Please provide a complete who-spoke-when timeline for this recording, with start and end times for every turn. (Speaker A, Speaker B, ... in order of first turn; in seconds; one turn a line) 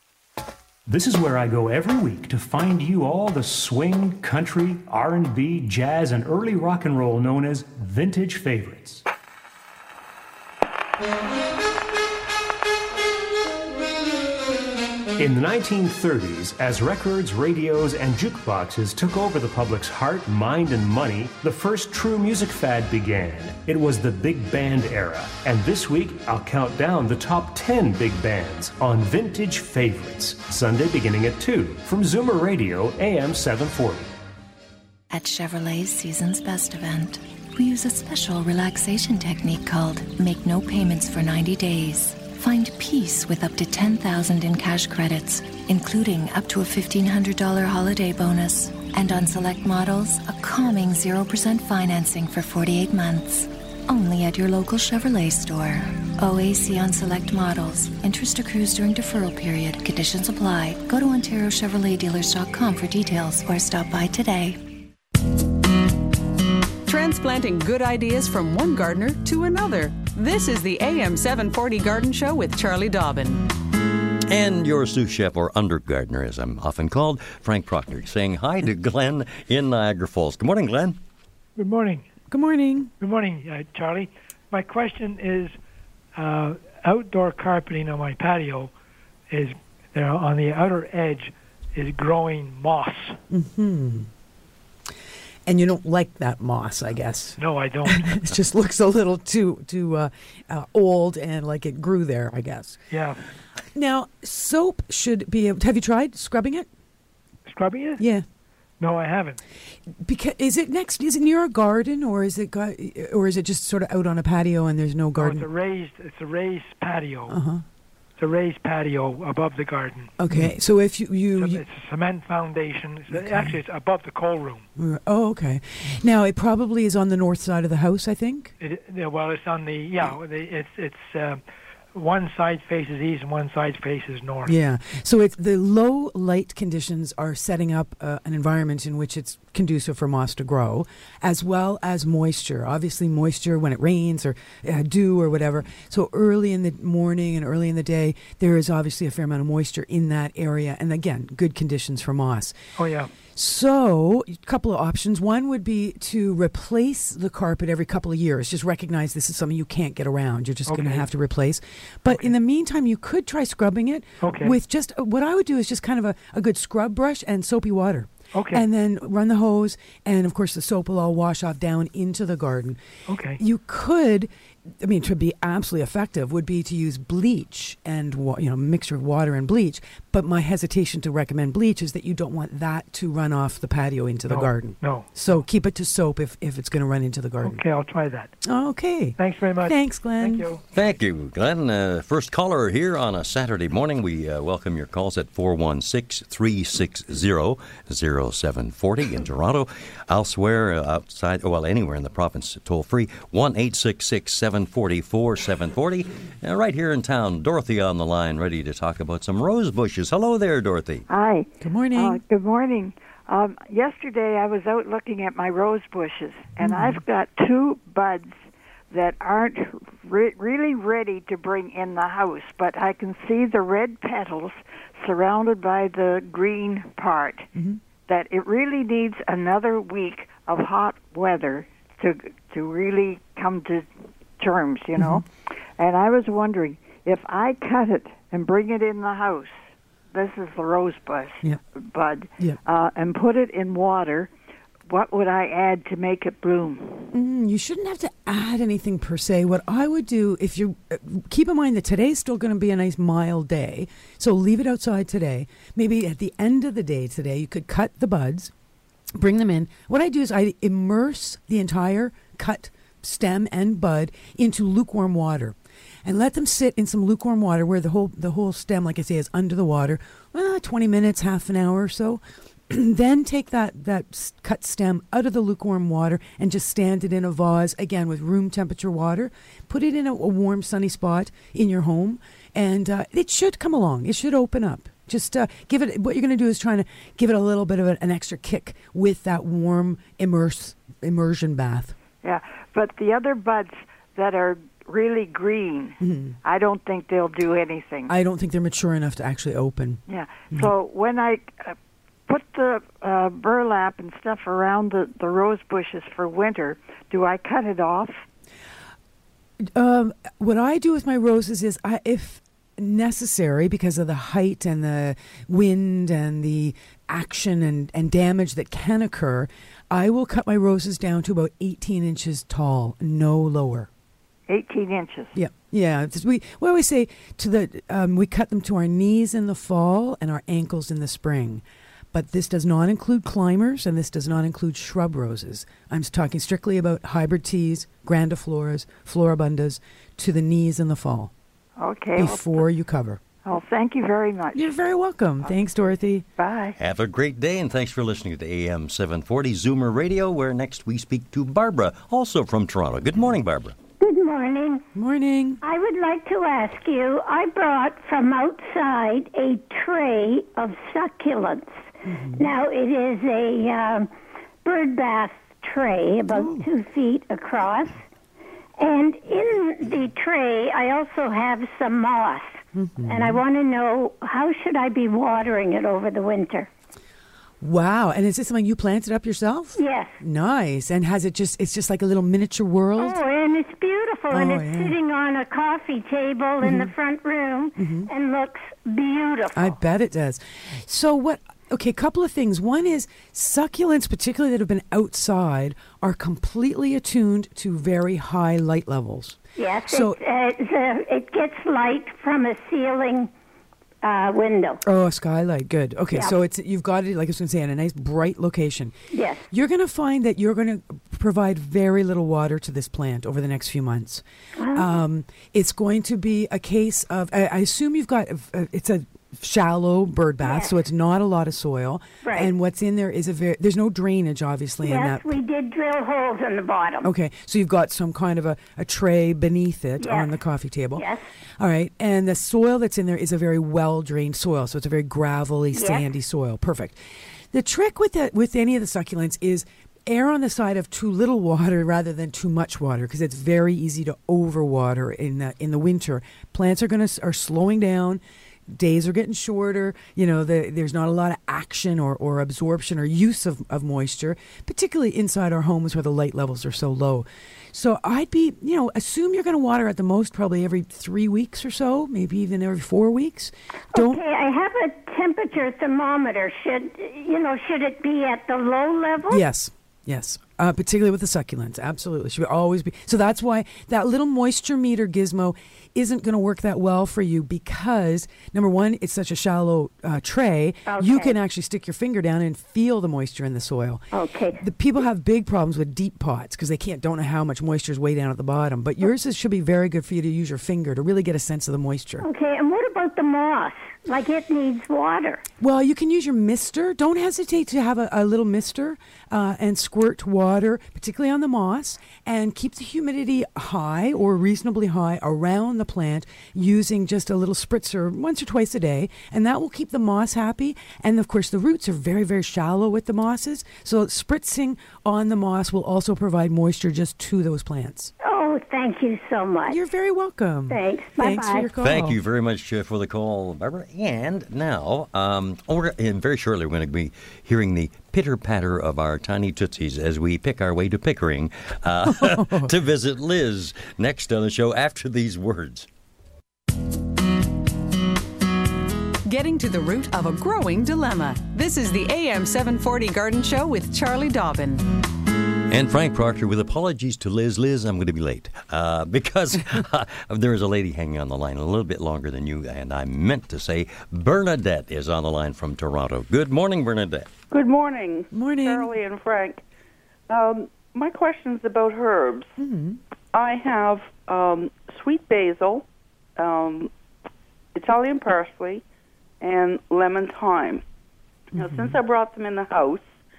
Speaker A: 0.9-9.0
Speaker A: 15.2-34.1
Speaker B: 35.1-64.6
Speaker C: 66.8-73.4
Speaker D: 74.3-81.0
Speaker E: 81.5-82.0
Speaker F: 82.3-82.9
Speaker E: 83.0-85.5
Speaker E: 86.1-88.7
Speaker E: 89.3-93.2
Speaker F: 93.3-94.1
Speaker F: 95.5-102.8
Speaker E: 97.4-98.1
Speaker E: 102.9-103.2
Speaker F: 103.8-106.7
Speaker E: 107.5-108.0
Speaker F: 108.0-108.2
Speaker E: 108.8-109.4
Speaker F: 110.0-115.5
Speaker E: 115.2-117.4
Speaker F: 117.3-117.6
Speaker E: 118.2-120.1
Speaker F: 120.2-121.6
Speaker E: 121.4-124.7
Speaker F: 123.1-123.5
Speaker F: 124.8-128.5
Speaker E: 128.6-131.4
Speaker E: 131.9-134.5
Speaker F: 134.4-152.6
Speaker E: 152.8-153.1
Speaker F: 153.3-172.8
Speaker E: 160.7-161.0
Speaker E: 164.2-164.6
Speaker E: 168.3-168.6
Speaker E: 173.1-173.4
Speaker F: 173.4-187.6
Speaker E: 184.3-185.4
Speaker E: 187.4-188.3
Speaker F: 188.4-190.5
Speaker E: 189.2-190.8
Speaker D: 190.7-211.1
Speaker G: 211.1-218.3
Speaker F: 211.6-212.2
Speaker F: 216.6-217.0
Speaker G: 218.9-227.5
Speaker G: 228.1-235.2
Speaker F: 235.0-235.2
Speaker G: 235.8-244.3
Speaker G: 244.9-247.1
Speaker F: 247.1-258.5
Speaker F: 259.1-291.9
Speaker G: 292.2-298.1
Speaker F: 296.0-296.4
Speaker F: 298.1-300.0
Speaker G: 300.1-301.8
Speaker G: 302.3-308.2
Speaker F: 309.7-323.9
Speaker G: 324.5-325.3
Speaker F: 325.3-341.3
Speaker G: 341.8-342.6
Speaker F: 342.1-343.2
Speaker G: 343.4-344.8
Speaker F: 344.5-346.2
Speaker G: 346.4-346.8
Speaker D: 346.8-353.8
Speaker H: 354.0-354.8
Speaker F: 354.9-355.6
Speaker H: 355.6-364.1
Speaker F: 362.0-362.5
Speaker H: 364.6-368.0
Speaker F: 366.3-366.6
Speaker H: 368.8-376.7
Speaker F: 372.7-373.4
Speaker F: 377.6-383.2
Speaker H: 379.8-380.2
Speaker H: 383.0-389.8
Speaker F: 384.3-384.9
Speaker F: 386.6-386.9
Speaker F: 387.8-388.1
Speaker F: 389.5-400.2
Speaker H: 399.6-403.3
Speaker H: 404.0-404.8
Speaker F: 404.8-408.9
Speaker H: 409.1-409.5
Speaker F: 409.5-414.2
Speaker H: 414.6-415.0
Speaker F: 414.7-425.3
Speaker H: 420.4-420.8
Speaker H: 422.2-422.5
Speaker H: 424.8-427.1
Speaker F: 427.0-431.0
Speaker H: 430.0-430.3
Speaker H: 430.9-431.2
Speaker F: 431.6-437.0
Speaker H: 435.7-436.1
Speaker F: 437.5-464.2
Speaker H: 463.9-469.4
Speaker F: 469.3-484.1
Speaker H: 480.9-481.4
Speaker H: 484.1-484.6
Speaker F: 484.6-492.2
Speaker H: 492.2-495.4
Speaker F: 495.6-518.1
Speaker H: 518.2-519.8
Speaker F: 519.7-522.2
Speaker H: 520.7-521.7
Speaker D: 521.8-535.9
Speaker F: 532.1-532.7
Speaker C: 539.2-544.9
Speaker D: 545.7-557.3
Speaker I: 557.5-559.6
Speaker F: 558.3-558.9
Speaker I: 560.3-562.5
Speaker F: 562.6-563.0
Speaker I: 563.3-565.8
Speaker I: 566.4-566.9
Speaker I: 567.7-568.8
Speaker I: 569.4-570.8
Speaker F: 571.5-572.0
Speaker I: 571.5-573.1